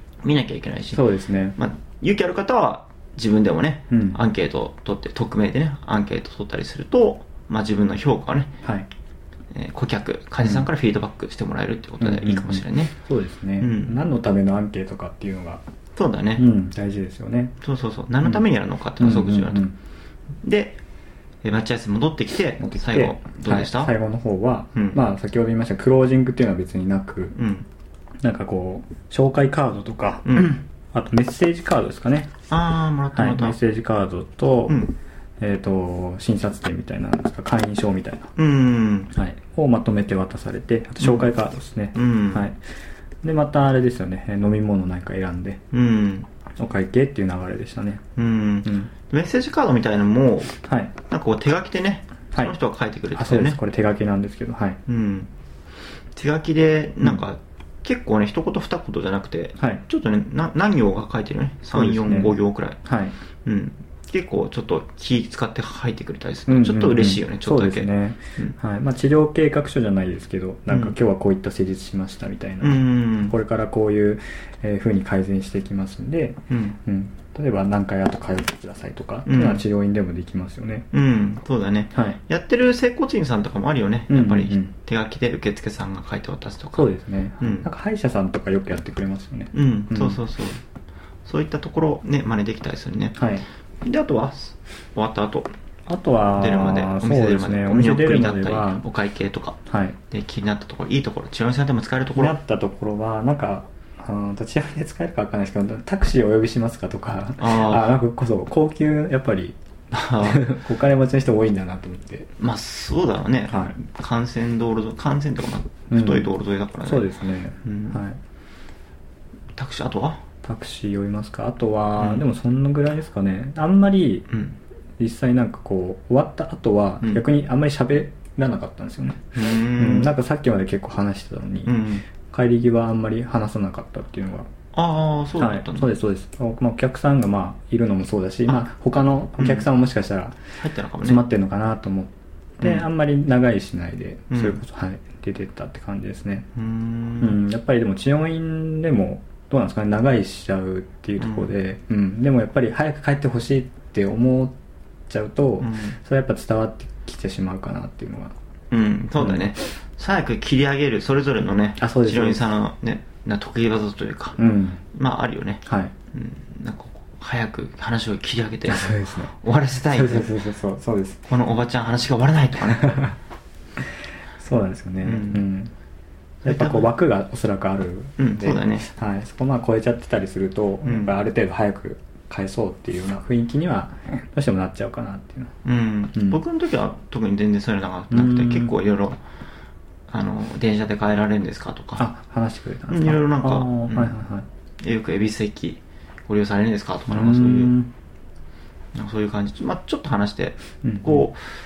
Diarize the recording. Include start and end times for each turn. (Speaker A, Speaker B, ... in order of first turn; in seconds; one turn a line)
Speaker A: 0.2-8.5
Speaker B: 0.9-1.6
Speaker B: 3.9-4.2
Speaker B: 8.6-8.9
Speaker A: 9.5-12.9
Speaker B: 10.4-10.7
Speaker B: 12.0-15.6
Speaker A: 13.6-14.0
Speaker A: 15.9-16.4
Speaker B: 16.4-17.5
Speaker A: 17.6-19.7
Speaker B: 19.0-19.7
Speaker A: 20.4-20.8
Speaker A: 21.4-23.9
Speaker B: 22.6-27.4
Speaker A: 24.7-25.0
Speaker A: 27.4-27.6
Speaker B: 28.2-32.3
Speaker A: 30.2-30.6
Speaker A: 32.5-33.6
Speaker B: 33.1-34.8
Speaker A: 34.7-34.9
Speaker B: 35.4-38.3
Speaker A: 38.4-39.1
Speaker B: 39.1-42.6
Speaker A: 41.0-41.3
Speaker A: 41.9-42.5
Speaker B: 43.2-45.6
Speaker A: 45.7-46.3
Speaker B: 46.6-48.0
Speaker A: 48.1-53.6
Speaker B: 48.6-48.9
Speaker B: 50.6-50.9
Speaker B: 53.1-54.8
Speaker A: 54.9-55.3
Speaker A: 56.1-62.8
Speaker B: 59.6-59.8
Speaker B: 61.7-63.1
Speaker A: 63.4-68.5
Speaker B: 66.5-80.9
Speaker A: 70.7-71.0
Speaker A: 72.6-73.3
Speaker A: 76.5-76.8
Speaker A: 79.2-79.6
Speaker A: 80.9-87.7
Speaker B: 81.9-82.2
Speaker B: 84.1-84.7
Speaker B: 86.7-90.2
Speaker A: 89.5-90.6
Speaker A: 91.2-93.2
Speaker B: 93.2-93.5
Speaker A: 93.8-95.5
Speaker B: 95.9-98.8
Speaker A: 96.3-99.6
Speaker B: 99.7-100.0
Speaker A: 100.1-102.3
Speaker B: 102.2-109.6
Speaker A: 107.4-108.0
Speaker A: 109.9-110.4
Speaker B: 110.1-112.3
Speaker A: 112.4-117.1
Speaker B: 115.9-116.3
Speaker B: 116.8-118.2
Speaker A: 117.6-118.0
Speaker A: 119.5-120.2
Speaker B: 120.4-124.3
Speaker A: 122.0-122.2
Speaker A: 124.3-124.6
Speaker B: 125.0-134.5
Speaker A: 129.3-130.1
Speaker A: 131.6-132.0
Speaker A: 134.7-135.9
Speaker B: 135.4-140.4
Speaker A: 139.4-139.7
Speaker A: 140.6-141.2
Speaker B: 141.0-146.4
Speaker A: 142.6-142.8
Speaker A: 144.3-144.6
Speaker A: 146.5-147.4
Speaker B: 147.2-154.5
Speaker A: 151.2-151.5
Speaker B: 155.1-158.3
Speaker A: 155.6-156.0
Speaker A: 158.7-164.4
Speaker B: 159.2-159.5
Speaker B: 161.8-162.5
Speaker B: 164.4-164.8
Speaker A: 164.9-170.4
Speaker B: 165.7-165.9
Speaker B: 168.7-169.3
Speaker B: 169.9-171.2
Speaker A: 171.2-173.1
Speaker B: 172.8-173.1
Speaker B: 174.4-175.7
Speaker A: 175.0-175.4
Speaker A: 176.4-176.9
Speaker B: 176.4-185.5
Speaker A: 178.2-178.9
Speaker A: 180.8-181.1
Speaker A: 185.6-189.2
Speaker B: 186.1-186.4
Speaker B: 188.1-188.7
Speaker A: 190.1-192.1
Speaker B: 192.0-194.4
Speaker A: 192.9-194.2
Speaker A: 194.8-197.7
Speaker B: 197.1-197.9
Speaker A: 198.9-201.4
Speaker B: 200.8-201.3